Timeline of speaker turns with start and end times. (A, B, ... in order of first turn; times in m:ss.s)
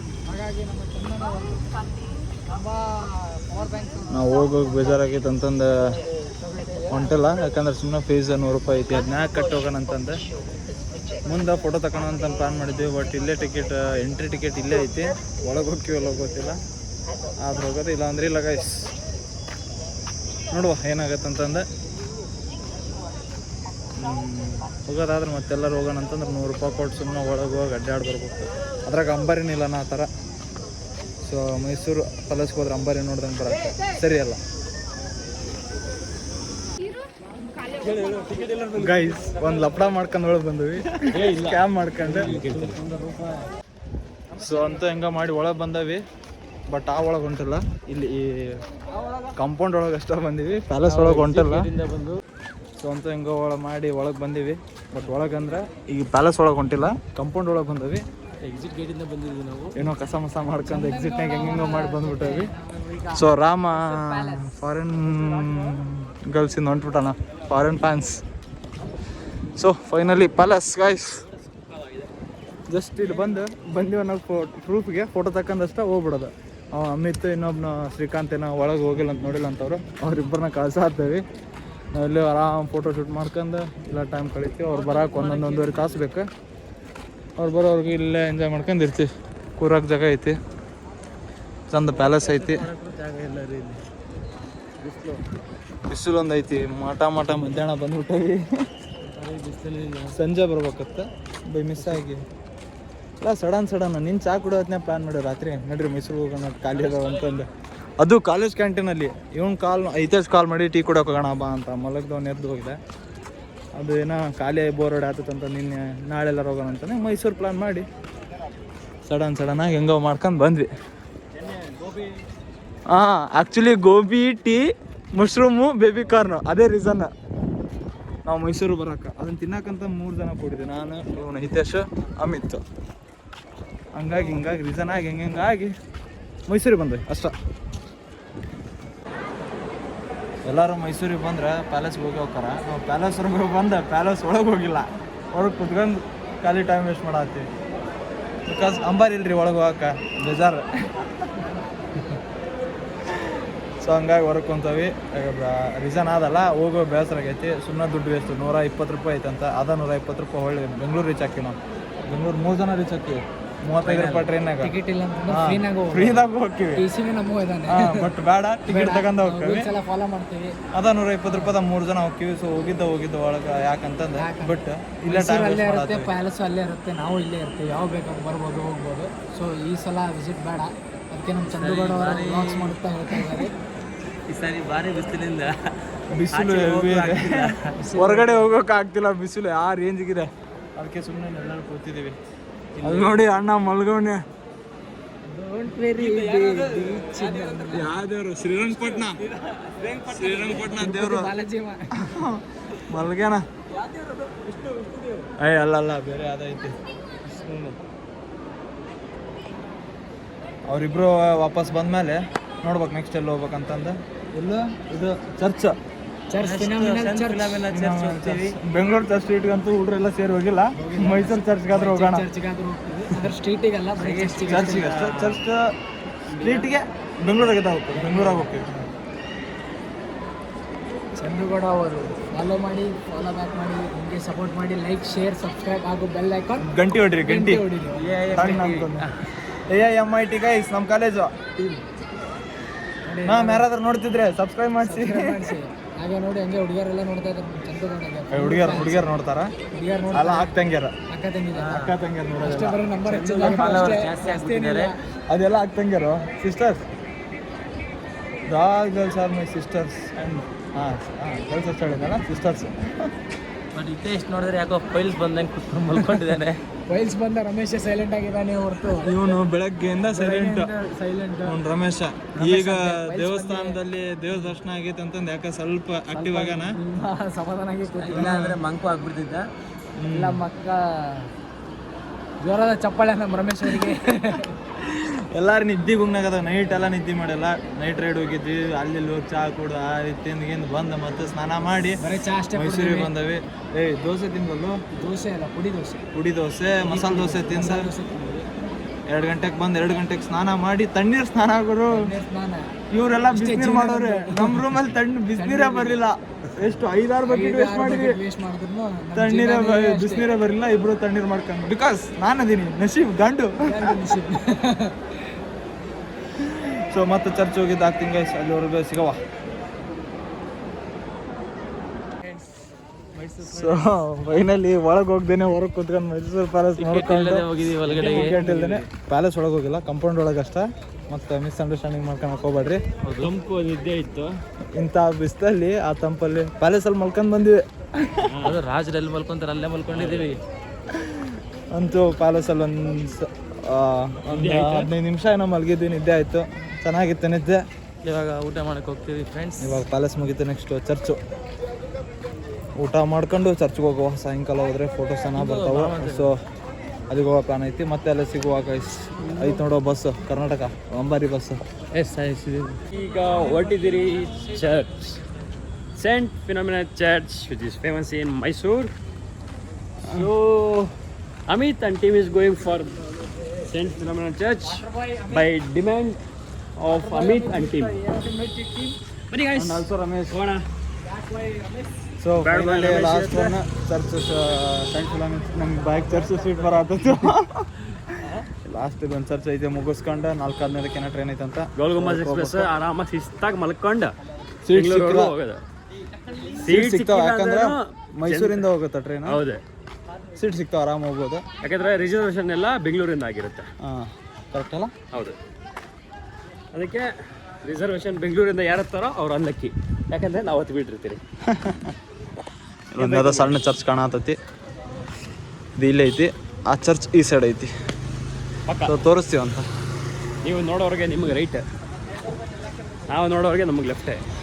0:00.2-0:01.7 A
0:02.5-0:04.2 A
0:04.1-0:05.7 B
0:06.5-0:06.9 A
0:06.9-0:10.2 B
0:11.3-0:16.6 B
0:17.4-0:18.9 B
0:20.5-0:21.6 B
0:24.0-0:30.1 B
0:31.2-0:34.4 B
0:37.8-0:39.1 C
0:38.8-0:42.3 B
0:41.1-0:42.8 C
0:42.1-0:43.4 D
0:44.4-0:46.0 B
0:46.7-0:48.6 B
0:49.4-0:51.7 B
0:50.8-0:52.2 D
0:52.8-0:58.0 B
0:58.4-0:59.8 D
0:59.7-1:02.5 B
1:00.6-1:04.6 A
1:03.1-1:08.2 B
1:09.6-1:11.2 B
1:11.7-1:12.1 C
1:12.7-1:21.2 B
1:21.9-1:26.2 B
1:24.7-1:26.0 D
1:27.4-1:30.3 B
1:31.7-1:32.7 B
1:31.9-1:33.8 D
1:34.8-1:35.2 D
1:35.9-1:38.4 B
1:39.1-1:40.2 D
1:40.1-1:42.2 B
1:43.2-1:47.5 B
1:46.7-1:47.3 D
1:48.0-1:52.8 B
1:53.8-1:57.8 B
1:59.1-2:00.7 B
2:01.4-2:02.2 C
2:02.9-2:07.1 B
2:08.2-2:12.6 B
2:13.9-2:15.7 B
2:16.5-2:17.3 B
2:20.4-2:27.5 B
2:28.5-2:31.1 B
2:33.8-2:44.7 B
2:43.9-2:44.1 D
2:44.6-2:46.2 A
2:45.3-2:46.8 B
2:46.8-2:48.1 A
2:47.7-2:49.7 B
2:48.7-2:50.6 A
2:50.7-2:56.1 B
2:51.3-2:51.5 A
2:54.2-3:03.5 A
3:01.5-3:03.3 D
3:04.3-3:05.5 D
3:06.1-3:12.2 B
3:06.3-3:07.8 D
3:07.8-3:08.4 A
3:12.8-3:13.3 D
3:12.8-3:14.2 B
3:15.2-3:17.9 A
3:15.9-3:17.9 D
3:17.7-3:19.2 B
3:18.8-3:20.7 D
3:20.0-3:21.3 B
3:20.6-3:21.8 A
3:22.0-3:23.4 B
3:23.8-3:25.3 D
3:25.4-3:26.7 B
3:27.2-3:27.8 D
3:30.7-3:35.8 B
3:36.3-3:37.6 A
3:36.4-3:38.6 D
3:37.7-3:42.2 B
3:40.8-3:44.9 A
3:44.0-3:45.4 D
3:44.4-3:45.6 B
3:46.3-3:46.7 D
3:46.3-3:48.7 B
3:48.0-3:48.4 D
3:51.2-3:58.1 A
3:56.6-3:57.6 B
3:58.0-3:59.1 D
3:58.3-3:59.1 B
3:59.7-4:01.3 B
4:03.1-4:03.6 A
4:03.2-4:05.4 B
4:04.8-4:09.1 A
4:08.3-4:09.5 B
4:09.7-4:10.5 A
4:10.1-4:10.9 B
4:11.1-4:11.7 A
4:11.6-4:11.9 D
4:11.7-4:14.0 B
4:12.4-4:15.0 A
4:13.2-4:14.9 D
4:15.3-4:16.8 B
4:18.5-4:22.9 B
4:23.7-4:26.6 D
4:26.9-4:29.1 A
4:29.0-4:30.7 B
4:30.1-4:31.6 A
4:31.4-4:36.8 B
4:32.4-4:33.8 A
4:36.1-4:38.6 A
4:37.9-4:39.5 D
4:38.1-4:38.6 B
4:40.0-4:40.4 B
4:40.1-4:41.3 A
4:42.4-4:44.5 A
4:44.7-4:52.0 B
4:52.0-4:53.1 A
4:52.5-4:54.8 B
4:54.9-4:56.0 A
4:56.1-4:57.9 B
4:56.8-4:58.5 A
4:59.1-5:02.1 B
5:01.9-5:02.7 A
5:02.9-5:08.2 B
5:03.3-5:04.6 A
5:05.3-5:06.0 A
5:07.2-5:10.3 A
5:09.1-5:14.1 B
5:13.6-5:15.1 A
5:16.4-5:19.2 B
5:23.1-5:23.9 D
5:23.4-5:32.8 B
5:26.8-5:28.4 D
5:27.9-5:28.8 C
5:33.0-5:33.3 D
5:33.2-5:34.3 C
5:34.8-5:38.5 B
5:38.2-5:38.6 C
5:38.4-5:40.4 D
5:39.9-5:40.3 C
5:40.9-5:47.6 B
5:44.3-5:44.9 C
5:48.0-5:49.8 D
5:49.6-5:51.2 B
5:52.8-5:56.4 B
5:55.3-5:56.3 D
5:57.1-6:01.6 B
5:59.3-5:59.6 C
6:01.9-6:02.8 D
6:02.9-6:05.2 C
6:06.0-6:08.9 C
6:10.1-6:10.9 C
6:11.5-6:13.0 C
6:13.6-6:16.2 C
6:14.6-6:15.5 A
6:16.8-6:18.0 C
6:16.9-6:19.0 A
6:19.3-6:20.6 C
6:19.5-6:20.4 B
6:21.0-6:22.0 A
6:22.2-6:32.7 B
6:22.4-6:23.6 C
6:31.8-6:34.1 C
6:34.6-6:35.3 B
6:34.7-6:35.6 C
6:36.6-6:38.7 C
6:36.6-6:39.4 B
6:39.2-6:39.6 C
6:40.4-6:41.4 B
6:41.6-6:43.7 C
6:43.8-6:44.9 B
6:46.7-6:47.1 C
6:47.6-6:51.2 C
6:51.4-6:51.9 B
6:52.9-6:54.4 B
6:53.0-6:53.6 C
6:55.8-6:57.7 B
6:58.7-6:58.9 C
6:58.9-6:59.6 B
7:00.4-7:01.6 C
7:03.1-7:04.2 C